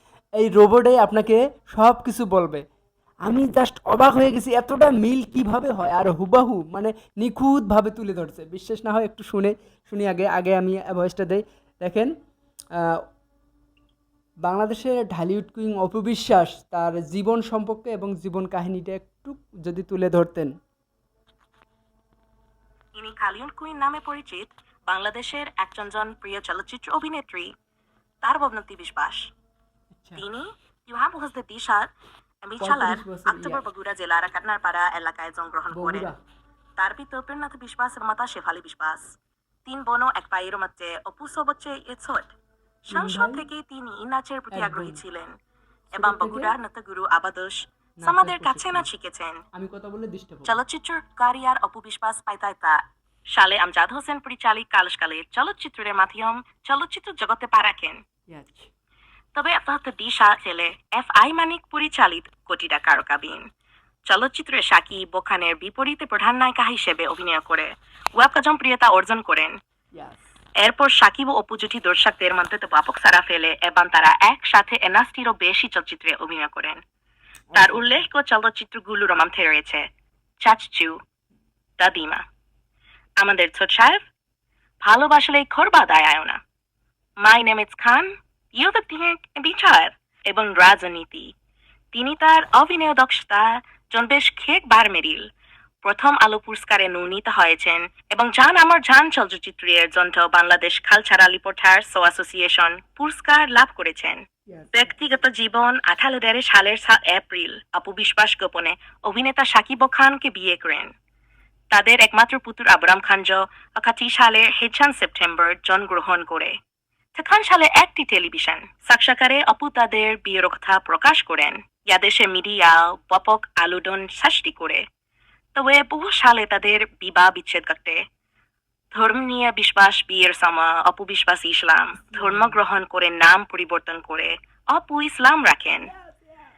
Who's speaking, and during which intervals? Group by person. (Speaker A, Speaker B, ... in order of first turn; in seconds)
Speaker A: 0.4-2.6, 3.2-12.1, 12.8-13.0, 14.4-20.5, 29.9-30.2, 32.6-33.6, 35.7-36.1, 42.9-43.4, 44.5-45.0, 45.9-46.5, 48.0-48.9, 49.5-50.5, 58.3-58.7, 70.0-70.3, 77.5-78.0, 104.5-104.9, 132.1-132.5, 136.1-136.3
Speaker B: 22.9-27.5, 28.2-29.3, 30.2-31.9, 32.4-36.1, 36.8-39.1, 39.6-42.3, 42.9-45.4, 45.9-49.4, 50.5-52.8, 53.3-58.0, 59.3-63.4, 64.1-69.5, 70.6-76.8, 77.5-79.8, 80.4-80.9, 81.8-82.2, 83.2-84.0, 84.8-86.4, 87.2-91.3, 91.9-95.2, 95.8-104.2, 104.7-110.9, 111.7-116.5, 117.2-124.8, 125.5-128.0, 128.9-135.9